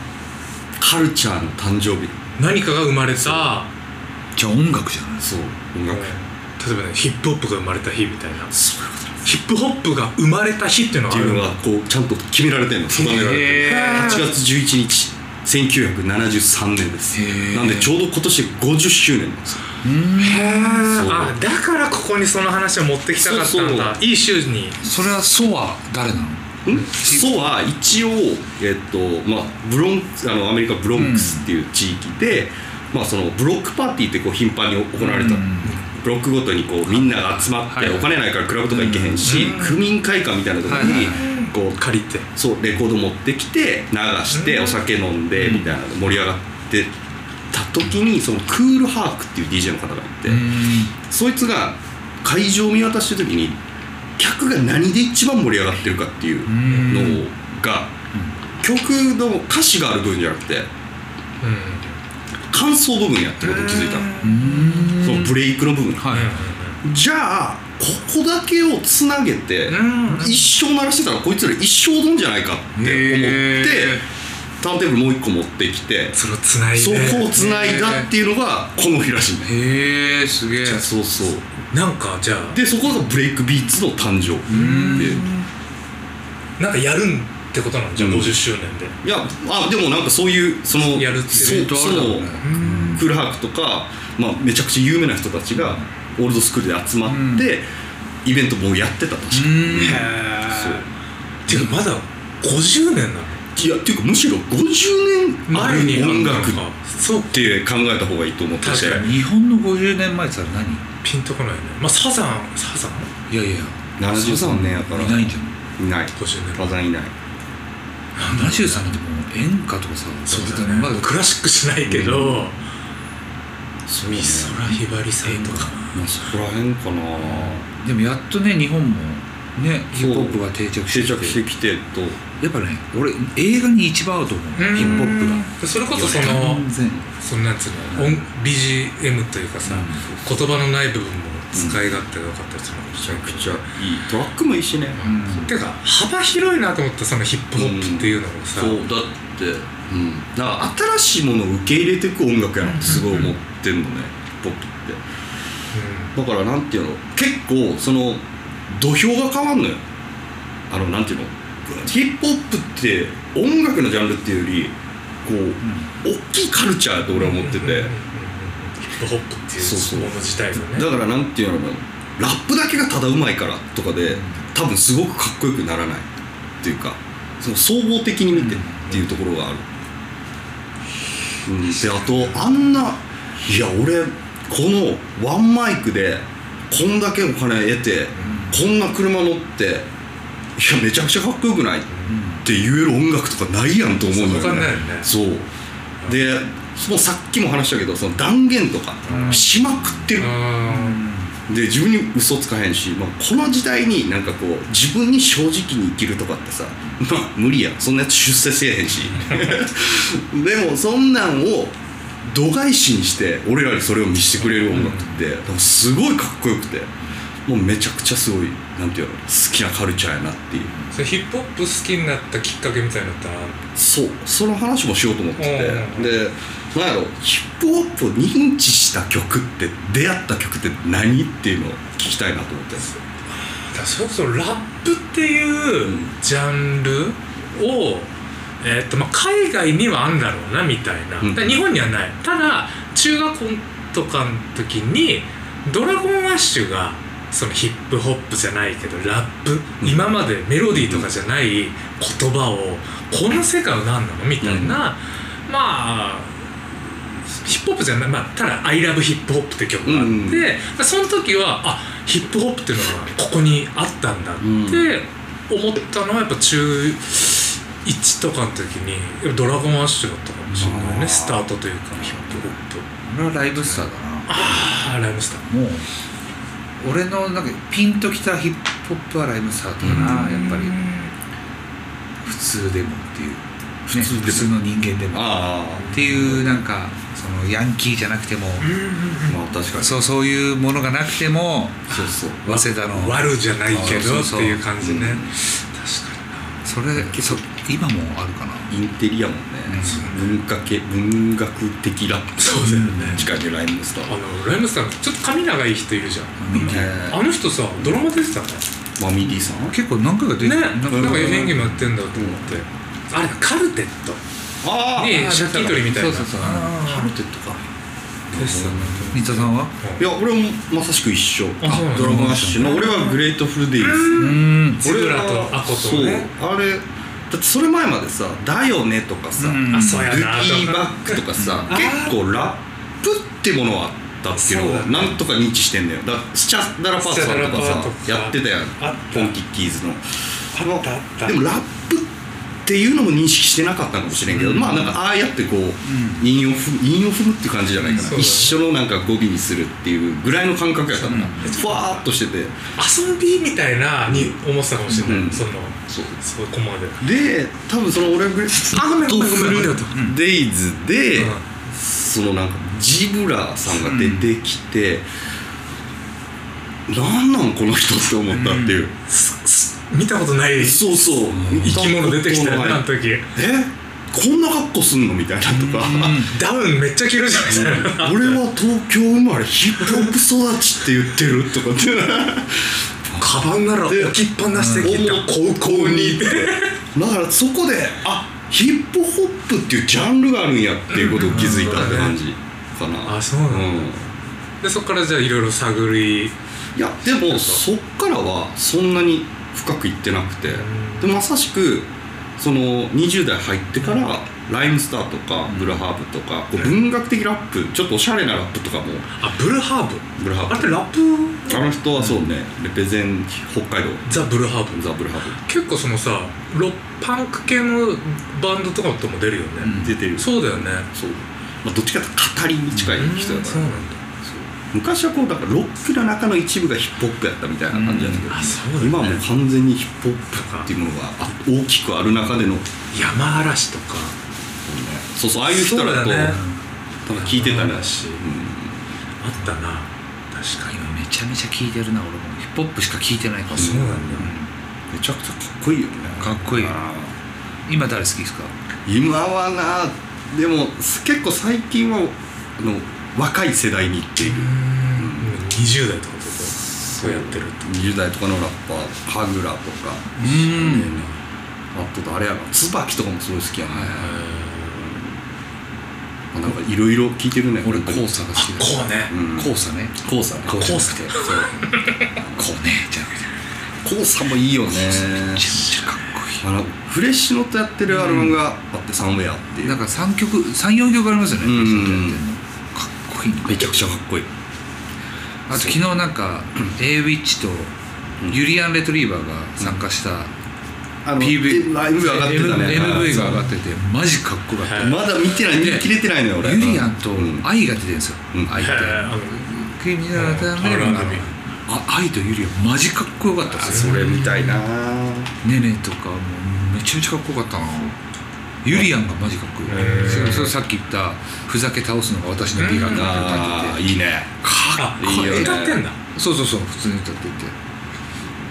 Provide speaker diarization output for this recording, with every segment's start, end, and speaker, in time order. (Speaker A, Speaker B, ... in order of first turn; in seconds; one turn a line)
Speaker A: 0.8-2.2
Speaker B: 2.4-3.7
Speaker A: 3.2-3.5
Speaker C: 4.3-5.3
Speaker A: 5.2-6.1
Speaker B: 5.9-8.5
Speaker A: 8.5-9.2
Speaker B: 9.2-11.5
Speaker A: 11.1-21.4
Speaker C: 12.9-14.3
Speaker B: 13.5-14.2
Speaker C: 17.1-17.9
Speaker C: 19.8-20.6
Speaker B: 20.2-24.8
Speaker A: 23.2-24.0
Speaker C: 24.8-27.3
Speaker A: 26.6-41.8
Speaker C: 30.9-31.5
Speaker C: 35.0-35.8
Speaker B: 35.6-35.9
Speaker C: 36.9-38.1
Speaker C: 38.7-39.5
Speaker B: 39.2-39.8
Speaker C: 40.6-41.2
Speaker B: 40.7-42.3
Speaker A: 42.3-46.9
Speaker B: 44.3-44.8
Speaker C: 45.4-45.7
Speaker A: 47.5-50.5
Speaker C: 50.3-50.9
Speaker A: 51.1-53.6
Speaker A: 54.2-57.9
Speaker C: 56.5-57.2
Speaker B: 56.6-56.9
Speaker A: 58.6-60.7
Speaker B: 61.4-62.0
Speaker A: 62.5-64.1
Speaker B: 63.4-64.9
Speaker C: 64.2-65.4
Speaker A: 64.9-66.3
Speaker C: 66.0-66.3
Speaker B: 66.1-66.8
Speaker A: 66.8-74.0
Speaker B: 69.7-70.5
Speaker C: 72.8-74.0
Speaker A: 74.6-76.2
Speaker B: 76.1-77.4
Speaker A: 76.7-79.5
Speaker C: 77.3-78.1
Speaker C: 79.5-80.9
Speaker A: 80.6-81.5
Speaker B: 81.7-82.6
Speaker A: 82.5-85.2
Speaker C: 84.5-85.5
Speaker B: 84.5-85.2
Speaker B: 86.6-88.9
Speaker A: 88.0-88.4
Speaker A: 89.0-97.7
Speaker B: 90.8-91.8
Speaker C: 91.3-93.1
Speaker B: 92.4-93.0
Speaker C: 95.5-95.8
Speaker C: 97.0-97.5
Speaker A: 98.2-100.8
Speaker C: 99.3-100.1
Speaker B: 99.8-100.8
Speaker B: 101.5-103.4
Speaker A: 103.5-106.6
Speaker B: 105.5-107.5
Speaker A: 107.3-109.1
Speaker B: 108.6-109.0
Speaker C: 108.8-110.8
Speaker B: 111.0-113.1
Speaker C: 113.3-115.5
Speaker A: 114.0-117.1
Speaker B: 116.2-116.7
Speaker B: 118.2-118.8
Speaker C: 118.2-121.1
Speaker B: 120.3-122.6
Speaker A: 121.8-122.5
Speaker A: 123.9-124.7
Speaker B: 124.0-125.8
Speaker C: 125.2-126.0
Speaker A: 125.9-127.7
Speaker C: 127.2-131.4
Speaker A: 129.9-132.2
Speaker C: 132.4-135.4
Speaker B: 134.6-136.7
Speaker A: 134.7-135.4
Speaker C: 135.9-137.0
Speaker A: 135.9-137.0
Speaker B: 137.2-143.6
Speaker C: 137.8-138.2
Speaker C: 139.6-140.1
Speaker A: 140.1-140.4
Speaker A: 141.5-141.8
Speaker A: 142.9-145.5
Speaker C: 145.0-145.5
Speaker B: 145.4-148.8
Speaker A: 147.6-155.0
Speaker B: 152.6-153.3
Speaker C: 152.8-153.3
Speaker B: 155.7-156.1
Speaker A: 156.1-159.8
Speaker A: 160.7-167.9
Speaker C: 165.6-165.9
Speaker B: 167.2-170.9
Speaker A: 169.6-176.1
Speaker C: 174.1-174.4
Speaker A: 176.6-179.7
Speaker C: 178.3-179.0
Speaker A: 181.4-189.9
Speaker B: 188.1-188.5
Speaker C: 188.2-188.5
Speaker A: 190.6-195.5
Speaker C: 192.1-192.4
Speaker B: 194.1-195.1
Speaker A: 196.0-200.4
Speaker B: 199.1-199.5
Speaker C: 199.1-201.4
Speaker B: 200.2-201.0
Speaker A: 201.5-216.9
Speaker B: 209.2-209.6
Speaker B: 214.6-215.0
Speaker C: 214.7-215.2
Speaker A: 217.4-220.8
Speaker B: 220.9-223.6
Speaker A: 223.8-232.9
Speaker B: 225.4-226.2
Speaker B: 233.3-256.4
Speaker A: 235.8-236.1
Speaker A: 241.2-241.6
Speaker A: 249.8-250.1
Speaker A: 250.7-251.1
Speaker A: 254.4-254.8
Speaker B: 257.3-272.9
Speaker A: 259.8-260.5
Speaker A: 264.4-264.9
Speaker A: 270.5-271.5
Speaker C: 273.0-274.8
Speaker B: 273.6-275.4
Speaker C: 275.4-275.9
Speaker C: 276.8-280.8
Speaker A: 279.8-280.3
Speaker B: 279.8-281.1
Speaker C: 282.2-288.7
Speaker A: 283.9-284.6
Speaker A: 285.1-286.6
Speaker B: 288.6-289.4
Speaker A: 289.3-290.1
Speaker C: 289.8-294.6
Speaker A: 291.9-292.5
Speaker B: 291.9-296.5
Speaker A: 293.7-294.2
Speaker A: 294.8-295.3
Speaker C: 296.6-298.7
Speaker A: 296.9-297.4
Speaker A: 298.7-304.1
Speaker C: 299.7-300.2
Speaker B: 299.8-300.2
Speaker B: 302.4-303.3
Speaker C: 302.6-303.3
Speaker B: 304.1-308.6
Speaker C: 306.4-307.0
Speaker A: 306.5-308.0
Speaker A: 309.0-309.8
Speaker C: 309.6-311.9
Speaker B: 310.4-314.2
Speaker A: 310.9-311.6
Speaker A: 312.1-312.6
Speaker A: 314.6-315.4
Speaker B: 314.9-317.1
Speaker C: 315.1-316.7
Speaker A: 316.8-317.6
Speaker A: 318.3-319.4
Speaker B: 318.3-320.0
Speaker C: 319.1-319.7
Speaker A: 320.0-342.1
Speaker B: 321.6-323.1
Speaker C: 321.6-323.1
Speaker B: 323.8-326.3
Speaker C: 324.2-324.8
Speaker C: 329.4-330.1
Speaker B: 329.7-331.2
Speaker C: 331.4-332.2
Speaker B: 331.7-332.1
Speaker C: 334.3-335.2
Speaker B: 337.0-339.3
Speaker B: 340.5-341.4
Speaker A: 342.6-352.6
Speaker C: 344.3-345.0
Speaker B: 344.4-344.9
Speaker C: 345.8-346.2
Speaker C: 347.8-348.2
Speaker B: 347.9-348.6
Speaker C: 351.0-351.6
Speaker B: 351.4-352.0
Speaker B: 352.8-357.0
Speaker A: 354.1-354.3
Speaker A: 354.9-356.2
Speaker A: 357.0-365.1
Speaker B: 358.7-360.0
Speaker C: 359.6-360.2
Speaker B: 361.2-361.4
Speaker C: 363.7-364.3
Speaker A: 366.9-368.9
Speaker C: 368.3-368.8
Speaker B: 369.1-373.2
Speaker A: 370.6-376.2
Speaker C: 371.3-371.8
Speaker C: 375.4-376.3
Speaker B: 376.2-378.4
Speaker A: 377.4-383.2
Speaker B: 383.2-386.7
Speaker A: 383.7-384.2
Speaker C: 384.5-385.0
Speaker A: 384.8-394.1
Speaker B: 390.9-392.1
Speaker B: 393.0-393.9
Speaker B: 394.6-396.3
Speaker A: 396.8-409.1
Speaker B: 397.2-397.6
Speaker B: 400.5-401.2
Speaker C: 405.5-405.8
Speaker B: 409.2-411.7
Speaker A: 410.2-410.8
Speaker A: 411.4-415.4
Speaker C: 412.0-412.2
Speaker B: 414.1-420.9
Speaker C: 419.6-420.0
Speaker A: 419.7-432.7
Speaker C: 422.7-423.0
Speaker B: 423.0-424.0
Speaker C: 427.7-428.3
Speaker B: 427.9-429.2
Speaker B: 430.3-430.7
Speaker B: 432.9-434.1
Speaker A: 434.7-436.4
Speaker B: 435.5-436.4
Speaker C: 436.3-436.6
Speaker A: 437.1-438.8
Speaker B: 437.1-438.2
Speaker B: 439.2-440.7
Speaker C: 440.7-444.5
Speaker B: 443.5-444.3
Speaker A: 443.6-444.3
Speaker A: 444.9-447.1
Speaker C: 446.2-446.8
Speaker C: 447.7-448.5
Speaker A: 448.9-455.4
Speaker B: 454.2-457.7
Speaker A: 456.5-461.1
Speaker C: 460.2-461.0
Speaker A: 461.7-465.1
Speaker B: 463.8-464.8
Speaker A: 466.3-468.1
Speaker C: 467.6-468.8
Speaker B: 468.4-469.1
Speaker A: 469.1-472.4
Speaker C: 469.3-471.2
Speaker B: 470.6-472.1
Speaker C: 472.4-473.3
Speaker A: 473.8-475.7
Speaker C: 474.7-476.4
Speaker A: 476.4-479.8
Speaker C: 477.9-478.4
Speaker C: 479.6-483.8
Speaker A: 481.4-482.2
Speaker A: 483.4-484.3
Speaker C: 485.5-487.7
Speaker A: 485.5-485.8
Speaker C: 488.3-490.3
Speaker A: 491.0-493.5
Speaker C: 491.2-495.9
Speaker B: 492.0-493.2
Speaker B: 494.6-495.0
Speaker A: 494.8-497.5
Speaker C: 496.4-504.0
Speaker A: 498.3-498.6
Speaker B: 498.6-499.4
Speaker B: 500.1-501.3
Speaker A: 503.6-505.3
Speaker B: 503.7-504.6
Speaker C: 505.4-508.0
Speaker C: 508.6-513.8
Speaker A: 508.7-508.9
Speaker B: 509.7-510.5
Speaker A: 509.7-510.5
Speaker B: 512.6-513.1
Speaker A: 512.9-514.3
Speaker C: 514.4-515.6
Speaker B: 514.7-516.0
Speaker A: 515.0-515.8
Speaker C: 516.1-517.5